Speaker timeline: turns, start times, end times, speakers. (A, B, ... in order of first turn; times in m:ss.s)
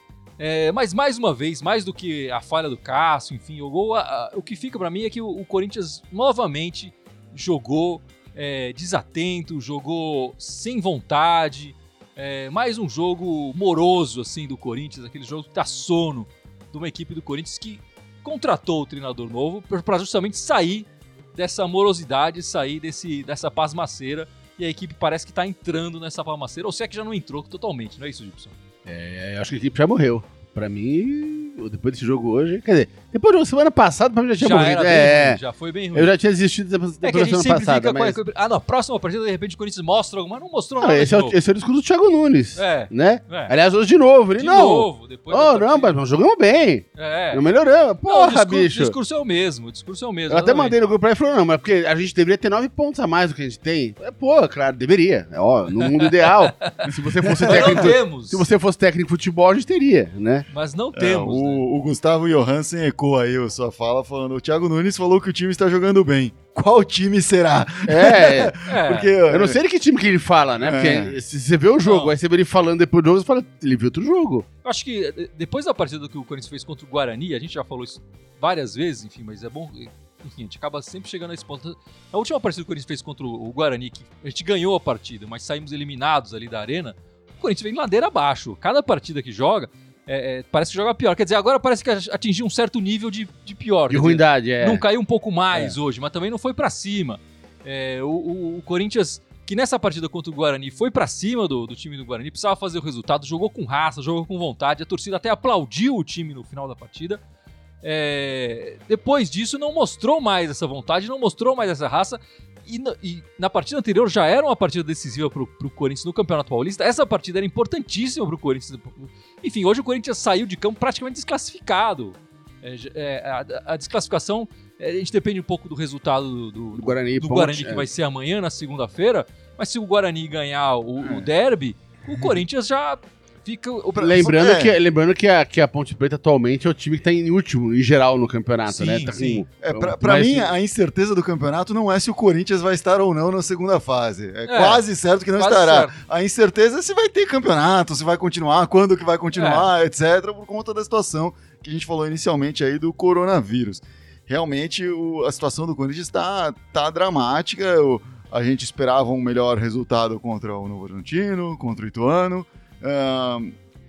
0:00.4-0:28.6 A
0:28.8-0:35.4 B
0:34.4-0:36.1 A
0:35.9-0:38.2 B
0:37.0-0:41.4 A
0:40.8-0:49.0 B
0:42.6-0:43.5 A
0:44.4-0:46.0 A
0:47.0-0:47.4 A
0:48.0-0:50.8 A
0:50.3-1:00.4 B
0:55.8-0:56.8 A
0:57.2-0:57.9 C
0:57.4-0:58.4 A
1:00.5-1:01.6 A
1:00.9-1:09.6 C
1:07.8-1:08.6 B
1:08.6-1:09.1 A
1:09.3-1:14.4 B
1:10.6-1:11.2 C
1:11.8-1:12.1 A
1:14.6-1:47.2 A
1:33.9-1:34.8 B
1:47.8-2:14.2 A
2:06.7-2:07.8 B
2:14.0-2:14.8 C
2:14.0-2:20.5 B
2:18.7-2:19.4 A
2:19.6-2:43.5 C
2:24.4-2:24.8 A
2:25.4-2:26.0 A
2:29.3-2:29.7 A